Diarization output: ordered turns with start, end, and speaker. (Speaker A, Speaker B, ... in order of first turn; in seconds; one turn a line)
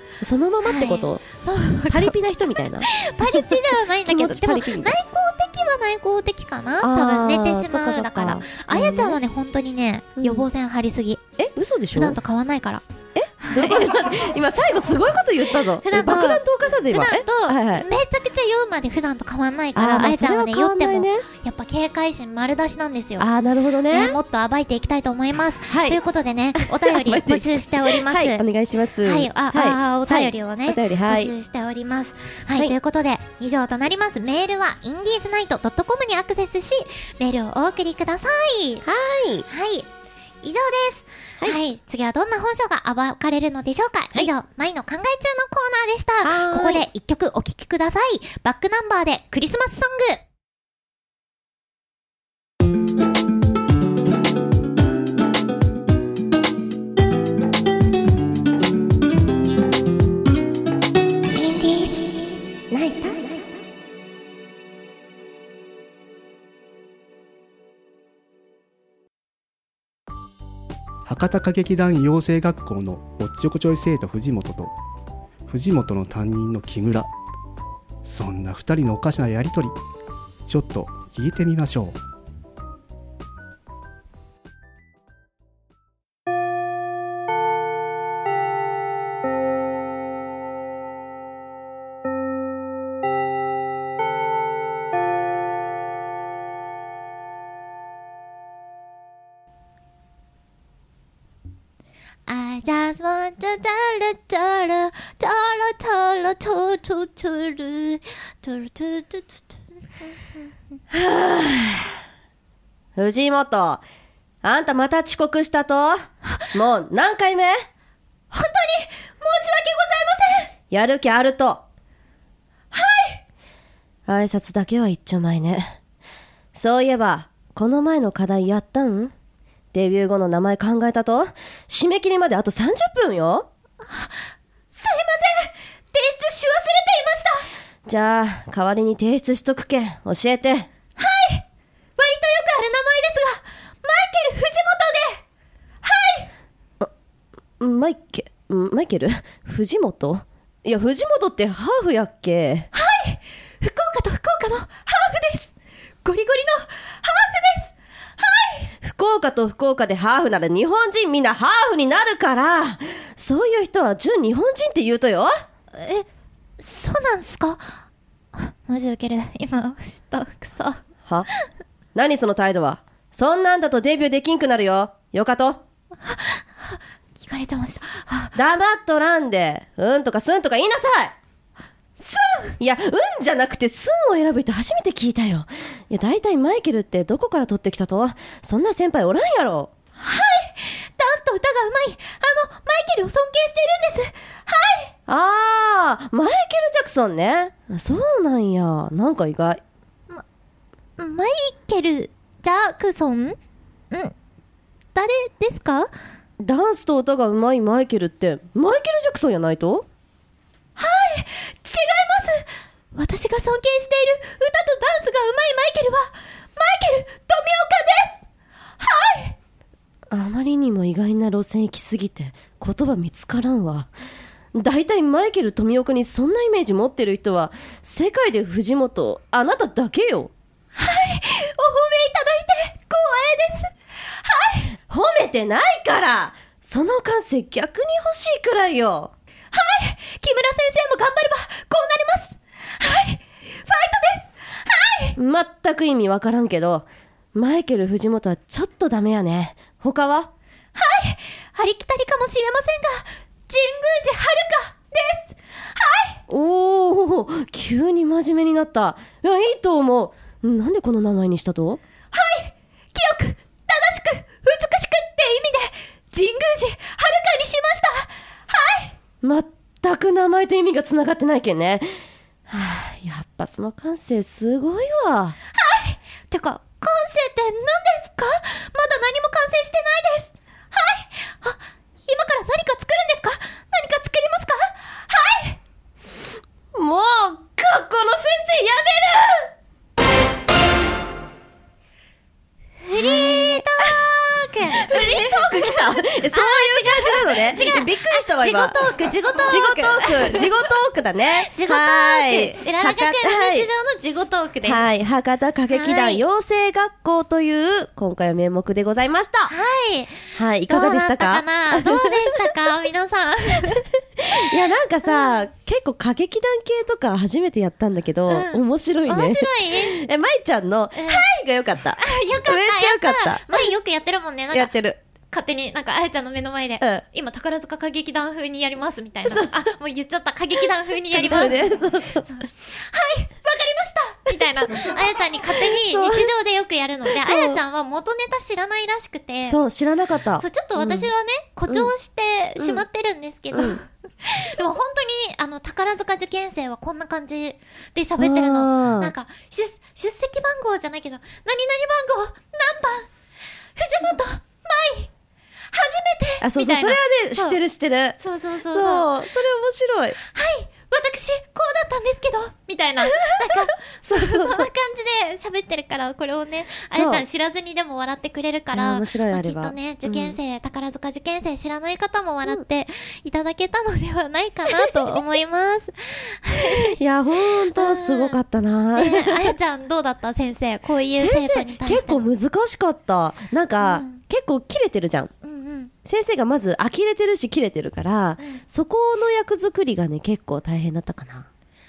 Speaker A: 0.2-1.2
Speaker B: 0.6-2.1
Speaker A: 1.9-5.0
Speaker B: 2.8-11.2
Speaker A: 6.8-9.2
Speaker A: 10.2-10.5
Speaker A: 11.4-12.2
Speaker B: 11.9-12.8
Speaker A: 13.2-17.9
Speaker B: 13.4-13.9
Speaker B: 15.8-23.3
Speaker A: 19.8-21.3
Speaker A: 23.2-24.2
Speaker B: 23.9-28.4
Speaker A: 25.7-26.0
Speaker A: 26.6-31.3
Speaker B: 29.0-38.9
Speaker A: 38.8-39.5
Speaker B: 39.5-39.9
Speaker B: 40.4-50.2
Speaker A: 46.2-46.9
Speaker B: 61.3-63.2
Speaker C: 71.1-74.7
Speaker C: 75.5-77.1
Speaker C: 78.0-79.7
Speaker C: 80.5-82.0
Speaker B: 102.3-110.2
Speaker A: 110.9-111.9
Speaker A: 113.0-113.8
Speaker A: 114.4-117.7
Speaker B: 116.3-116.6
Speaker B: 118.3-120.5
Speaker A: 120.7-121.6
Speaker B: 122.7-123.2
Speaker A: 124.1-125.8
Speaker A: 126.5-129.1
Speaker A: 129.7-133.5
Speaker B: 133.8-137.5
Speaker A: 137.8-140.7
Speaker B: 141.0-141.4
Speaker B: 142.0-145.2
Speaker B: 145.8-146.3
Speaker A: 147.6-152.7
Speaker B: 152.7-158.7
Speaker A: 158.8-165.3
Speaker B: 165.7-166.1
Speaker B: 166.6-167.8
Speaker B: 168.3-170.8
Speaker A: 171.9-175.6
Speaker B: 176.0-178.3
Speaker A: 178.3-181.2
Speaker B: 182.0-182.6
Speaker A: 182.6-189.7
Speaker B: 190.0-194.9
Speaker A: 195.1-199.6
Speaker B: 201.0-203.4
Speaker B: 204.9-205.9
Speaker A: 206.4-209.9
Speaker B: 210.8-218.2
Speaker B: 218.8-219.4
Speaker A: 220.1-223.9
Speaker A: 224.5-230.3
Speaker B: 230.8-234.8
Speaker A: 234.9-239.1
Speaker B: 239.5-245.2
Speaker A: 245.2-250.3
Speaker B: 250.8-256.2
Speaker A: 256.3-261.8
Speaker B: 262.1-268.9
Speaker A: 269.2-271.9
Speaker A: 272.5-275.4
Speaker B: 275.5-285.6
Speaker A: 286.7-289.5
Speaker B: 292.8-300.6
Speaker A: 292.9-294.0
Speaker A: 294.8-298.8
Speaker A: 299.5-303.7
Speaker B: 301.4-304.9
Speaker A: 304.6-309.5
Speaker B: 305.7-306.2
Speaker B: 309.5-314.5
Speaker A: 310.3-312.6
Speaker A: 313.7-323.7
Speaker B: 315.1-315.4
Speaker B: 318.3-320.0
Speaker B: 320.9-321.2
Speaker B: 322.0-324.7
Speaker A: 324.5-325.0
Speaker B: 325.3-339.6
Speaker A: 329.3-329.5
Speaker A: 331.1-332.3
Speaker A: 334.6-334.9
Speaker A: 335.5-336.3
Speaker A: 337.1-337.6
Speaker A: 339.5-341.1
Speaker B: 340.4-353.1
Speaker A: 342.6-342.9
Speaker A: 343.5-343.8
Speaker A: 348.2-349.1
Speaker B: 353.8-355.1
Speaker B: 355.7-357.6
Speaker A: 356.4-358.2
Speaker B: 358.2-359.1
Speaker A: 358.7-360.2
Speaker B: 360.2-377.0
Speaker A: 363.2-364.7
Speaker A: 366.9-367.2
Speaker A: 368.7-370.4
Speaker A: 376.7-379.6
Speaker B: 377.7-378.4
Speaker B: 378.9-382.3
Speaker A: 381.2-385.3
Speaker B: 383.8-384.2
Speaker B: 385.4-385.9
Speaker A: 386.1-391.5
Speaker B: 388.4-388.6